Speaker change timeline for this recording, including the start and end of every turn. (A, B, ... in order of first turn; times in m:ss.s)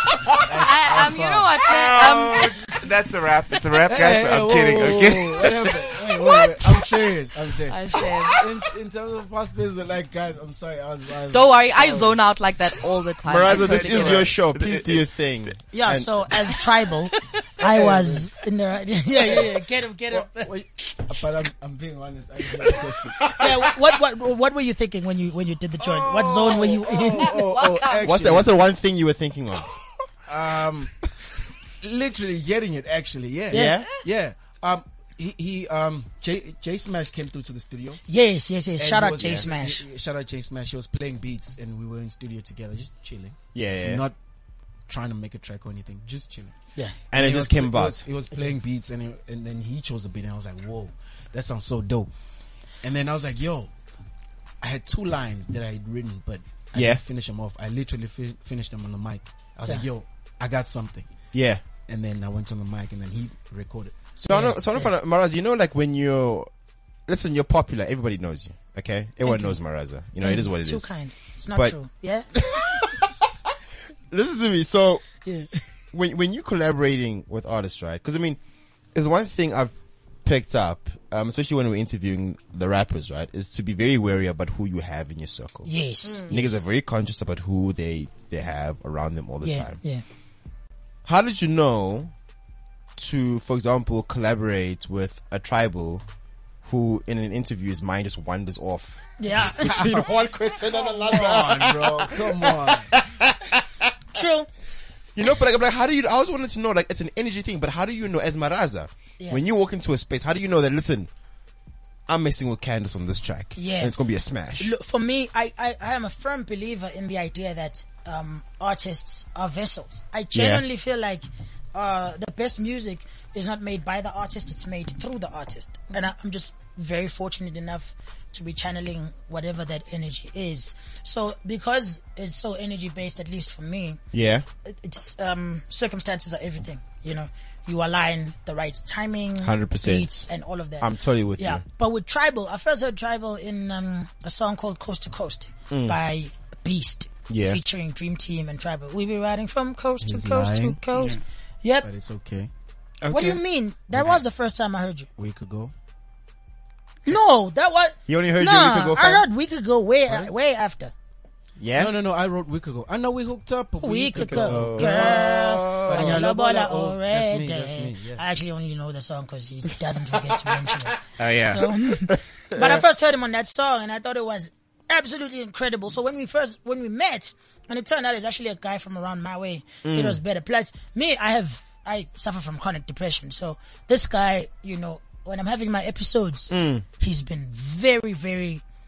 0:00.3-0:02.8 A
0:00.6-0:02.6 B
0:01.7-0:05.9 C
0:03.8-0:12.2 A
0:07.7-0:08.4 B
0:11.3-0:14.3 B
0:13.3-0:16.3 D
0:13.4-0:15.0 C
0:15.7-0:20.5 E
0:17.6-0:18.4 A
0:19.1-0:19.6 A
0:20.1-0:23.4 A
0:23.4-0:27.3 E
0:25.8-0:28.6 A
0:27.2-0:28.1 B
0:28.0-0:29.8 D
0:30.3-0:31.2 A
0:31.8-0:38.0 A
0:33.5-0:33.8 E
0:33.5-0:33.9 D
0:38.1-0:39.8 E
0:38.8-0:44.2 A
0:39.2-0:39.5 D
0:43.5-0:44.0 D
0:44.9-0:46.5 A
0:47.1-0:48.0 D
0:47.1-0:52.1 A
0:52.7-0:53.7 A
0:54.6-1:04.2 A
0:56.8-0:57.0 D
1:01.3-1:01.6 D
1:04.2-1:06.5 D
1:04.3-1:04.9 E
1:07.1-1:10.9 D
1:09.2-1:09.6 E
1:10.2-1:12.3 E
1:12.3-1:12.9 D
1:14.1-1:15.0 D
1:15.9-1:18.4 D
1:18.9-1:25.7 D
1:25.7-1:26.6 E
1:26.0-1:26.3 B
1:26.3-1:29.8 D
1:29.4-1:30.0 E
1:31.0-1:32.1 D
1:33.0-1:36.0 D
1:36.6-1:44.2 D
1:39.2-1:40.1 E
1:41.0-1:42.9 A
1:44.1-1:44.5 E
1:45.2-1:51.1 D
1:52.1-1:54.7 D
1:53.6-1:54.0 E
1:54.6-2:14.0 E
2:00.4-2:00.6 D
2:14.1-2:14.5 D
2:14.6-2:31.9 E
2:19.4-2:20.3 D
2:20.8-2:21.6 D
2:25.7-2:26.0 D
2:27.3-2:27.6 D
2:30.0-2:30.8 A
2:30.9-2:31.2 C
2:31.8-2:32.5 A
2:33.0-2:33.4 C
2:33.1-2:35.1 E
2:35.2-2:35.7 A
2:37.1-2:40.9 E
2:38.1-2:39.3 D
2:41.6-2:42.0 D
2:41.7-2:48.2 A
2:43.8-3:08.6 E
2:44.2-2:46.1 D
2:51.2-2:51.7 C
2:52.1-2:52.8 D
2:59.8-3:00.2 D
3:06.5-3:06.8 D